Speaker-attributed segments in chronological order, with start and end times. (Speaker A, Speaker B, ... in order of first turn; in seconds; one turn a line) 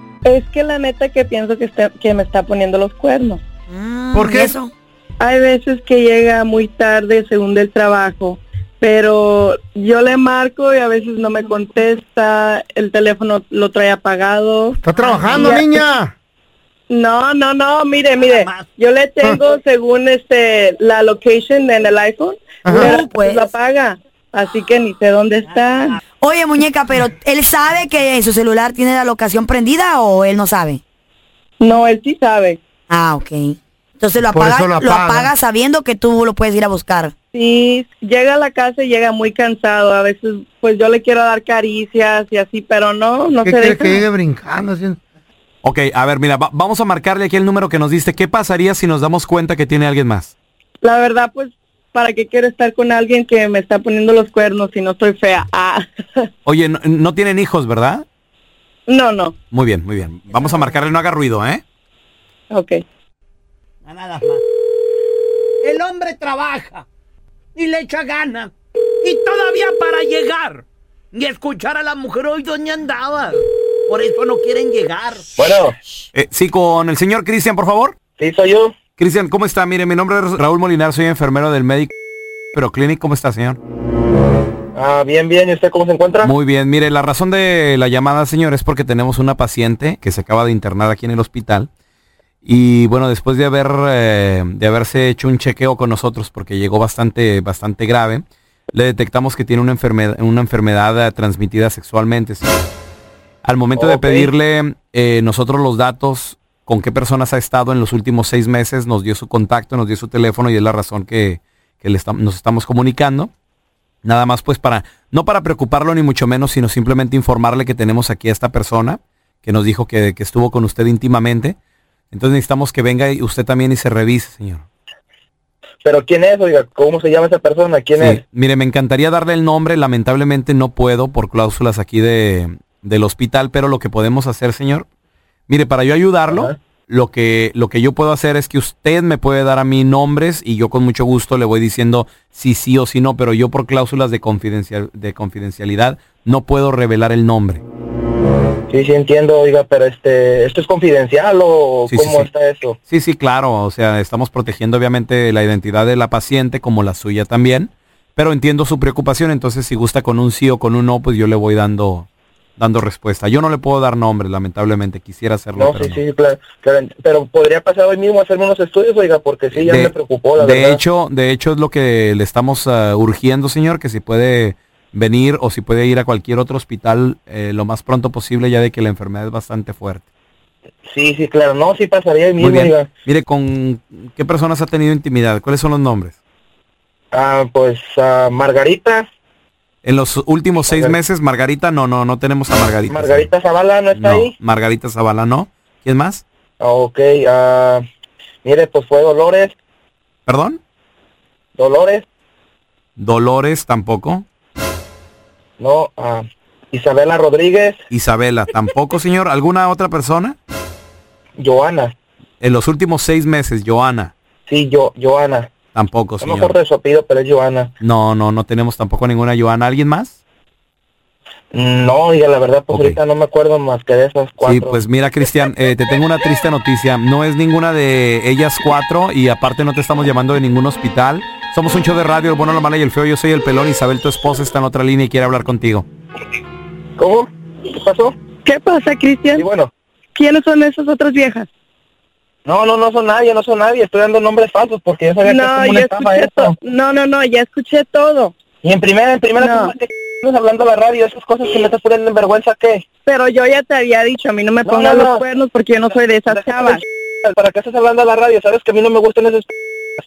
Speaker A: 0.2-3.4
Speaker B: 3.7-4.7
Speaker C: 4.2-4.4
Speaker A: 5.2-15.8
Speaker D: 14.8-16.1
Speaker B: 15.3-15.6
Speaker A: 16.9-26.0
Speaker D: 22.6-22.9
Speaker B: 22.7-23.5
Speaker B: 26.2-30.8
Speaker A: 31.6-32.6
Speaker B: 32.9-37.1
Speaker D: 34.2-35.3
Speaker A: 37.3-44.1
Speaker D: 43.4-45.0
Speaker C: 45.6-50.3
Speaker A: 50.8-56.3
Speaker C: 56.5-58.0
Speaker A: 58.9-59.3
Speaker C: 59.5-61.6
Speaker A: 62.5-62.8
Speaker E: 63.9-64.4
Speaker E: 65.6-66.8
Speaker E: 67.5-68.5
Speaker E: 69.0-73.4
Speaker E: 73.9-75.2
Speaker F: 75.4-75.8
Speaker C: 76.1-78.0
Speaker F: 78.2-78.8
Speaker C: 79.0-81.9
Speaker C: 82.5-83.6
Speaker F: 84.8-86.3
Speaker C: 86.2-91.7
Speaker C: 92.4-102.5
Speaker C: 103.4-113.3
Speaker F: 103.8-104.3
Speaker C: 114.0-121.6
Speaker C: 122.1-124.6
Speaker F: 125.8-128.2
Speaker C: 128.0-134.9
Speaker C: 135.5-147.6
Speaker F: 148.7-152.8
Speaker C: 151.9-152.3
Speaker C: 152.9-166.0
Speaker F: 165.6-170.8
Speaker C: 169.5-180.1
Speaker F: 180.9-182.9
Speaker C: 182.4-186.2
Speaker F: 187.1-189.1
Speaker C: 189.8-193.3
Speaker F: 190.7-191.0
Speaker F: 192.9-194.3
Speaker C: 193.9-196.2
Speaker F: 196.6-197.8
Speaker F: 198.4-199.5
Speaker C: 200.3-200.6
Speaker F: 201.6-202.1
Speaker C: 203.0-204.2
Speaker F: 205.6-207.8
Speaker C: 207.9-210.4
Speaker F: 211.4-211.9
Speaker C: 212.4-214.1
Speaker F: 214.5-215.5
Speaker C: 215.7-216.5
Speaker F: 216.2-217.7
Speaker C: 217.8-220.2
Speaker F: 221.5-224.8
Speaker C: 222.7-223.0
Speaker C: 224.4-235.8
Speaker F: 237.0-238.2
Speaker A: 238.4-239.4
Speaker F: 239.4-239.7
Speaker A: 240.2-241.5
Speaker F: 242.4-246.5
Speaker A: 245.2-248.3
Speaker F: 248.6-252.8
Speaker A: 249.4-249.7
Speaker A: 253.1-256.8
Speaker F: 254.7-255.2
Speaker F: 256.3-259.5